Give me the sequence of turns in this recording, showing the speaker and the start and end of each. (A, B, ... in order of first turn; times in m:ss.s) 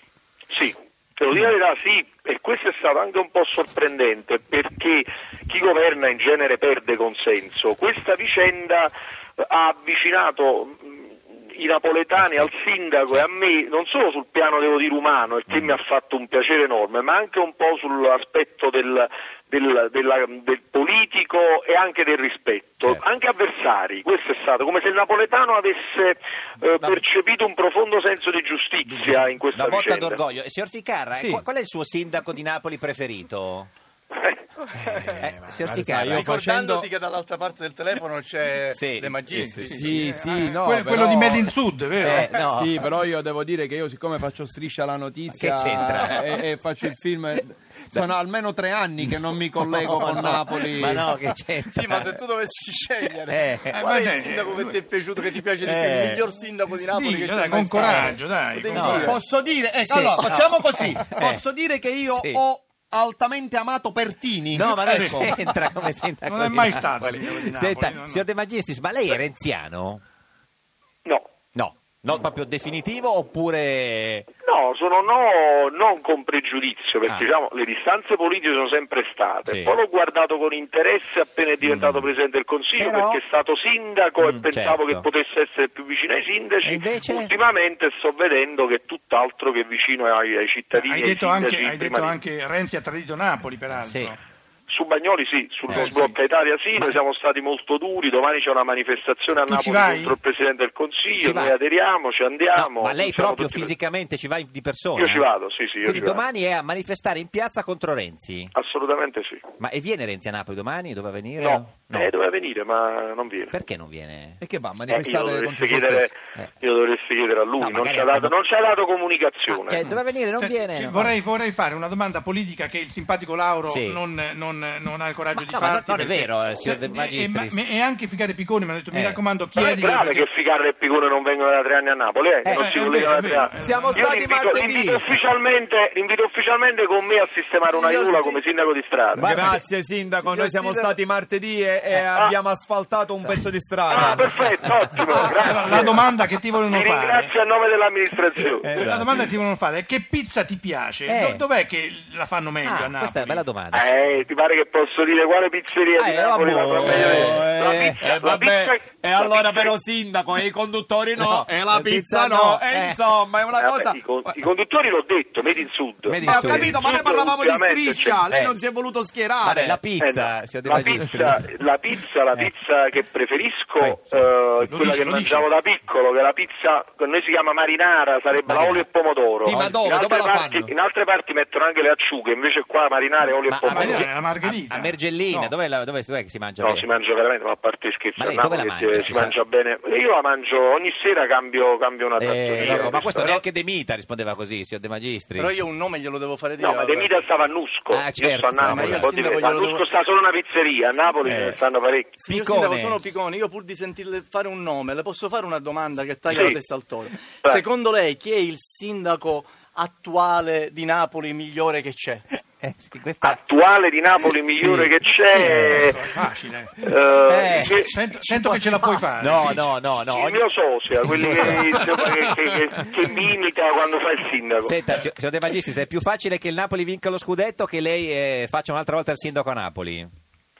0:00.5-0:30.2 A
0:12.2-0:12.5 B
0:15.5-0:15.8 B
0:28.9-0:33.7 B
0:31.2-0:31.4 C
0:34.8-0:35.2 D
0:35.1-0:36.3 B
0:35.6-0:36.9 C
0:36.1-0:40.2 D
0:38.7-0:40.1 B
0:39.6-0:41.5 C
0:40.3-0:42.3 E
0:42.0-0:42.8 B
0:42.0-0:51.1 C
0:45.3-0:46.4 B
0:49.6-0:52.2 B
0:50.2-0:50.6 D
0:51.6-0:59.2 D
0:53.3-0:53.8 B
0:53.7-0:54.8 E
0:55.6-0:56.2 B
0:56.9-0:59.2 E
0:58.7-0:59.2 B
0:58.9-1:05.4 C
0:59.8-1:01.4 B
1:00.2-1:00.5 D
1:02.0-1:02.4 B
1:04.5-1:10.0 B
1:04.9-1:05.3 E
1:06.2-1:08.2 E
1:11.6-1:14.3 B
1:14.4-1:32.2 A
1:19.5-1:19.7 B
1:21.6-1:22.1 B
1:22.8-1:23.2 B
1:24.2-1:25.0 B
1:26.6-1:27.3 B
1:30.7-1:34.2 E
1:33.7-1:34.2 B
1:34.7-1:43.7 A
1:35.7-1:36.2 E
1:39.5-1:40.2 E
1:41.2-1:41.6 B
1:42.6-1:45.3 B
1:45.0-1:46.2 A
1:45.8-1:48.5 B
1:48.5-1:49.5 A
1:49.6-1:52.1 B
1:51.4-1:53.5 A
1:53.5-1:54.4 B
1:54.4-1:56.2 C
1:54.9-1:59.9 A
1:57.6-1:58.3 B
1:59.5-2:01.2 B
2:00.4-2:10.3 E
2:03.7-2:04.0 B
2:05.4-2:07.6 B
2:08.9-2:09.2 B
2:09.6-2:19.3 A
2:12.5-2:14.1 E
2:13.6-2:15.0 C
2:17.7-2:18.4 D
2:19.2-2:24.3 C
2:19.3-2:19.5 D
2:20.2-2:21.0 D
2:23.9-2:26.0 A
2:25.4-2:27.3 E
2:26.7-2:28.7 A
2:28.7-2:29.0 C
2:28.7-2:29.1 B
2:28.8-2:33.4 E
2:31.1-2:31.4 B
2:32.6-2:33.9 B
2:33.7-2:39.8 A
2:36.0-2:38.0 B
2:36.9-2:44.4 C
2:41.2-2:43.0 B
2:43.6-2:48.2 A
2:46.1-2:46.8 B
2:46.2-2:49.8 C
2:48.3-2:48.6 B
2:49.4-2:51.5 B
2:50.0-3:04.0 A
2:53.8-2:54.0 B
2:54.7-2:55.5 E
2:58.5-2:58.8 B
2:59.4-3:00.7 C
3:03.5-3:06.9 B
3:03.7-3:05.6 E
3:06.6-3:13.1 A
3:08.2-3:09.4 B
3:12.2-3:15.6 B
3:12.6-3:13.4 D
3:15.4-3:17.2 D
3:16.6-3:22.2 A
3:17.9-3:19.1 B
3:18.6-3:19.8 D
3:21.2-3:21.6 B
3:22.2-3:32.2 D
3:22.3-3:23.0 B
3:26.3-3:26.6 A
3:32.6-3:33.4 B
3:33.2-3:36.0 A
3:34.5-3:35.8 B
3:35.4-3:36.8 E
3:36.8-3:37.9 A
3:37.3-3:37.9 B
3:37.5-3:39.7 E
3:38.2-3:39.1 D
3:39.2-3:40.5 B
3:40.0-3:44.8 A
3:41.0-3:41.9 B
3:44.6-3:50.1 B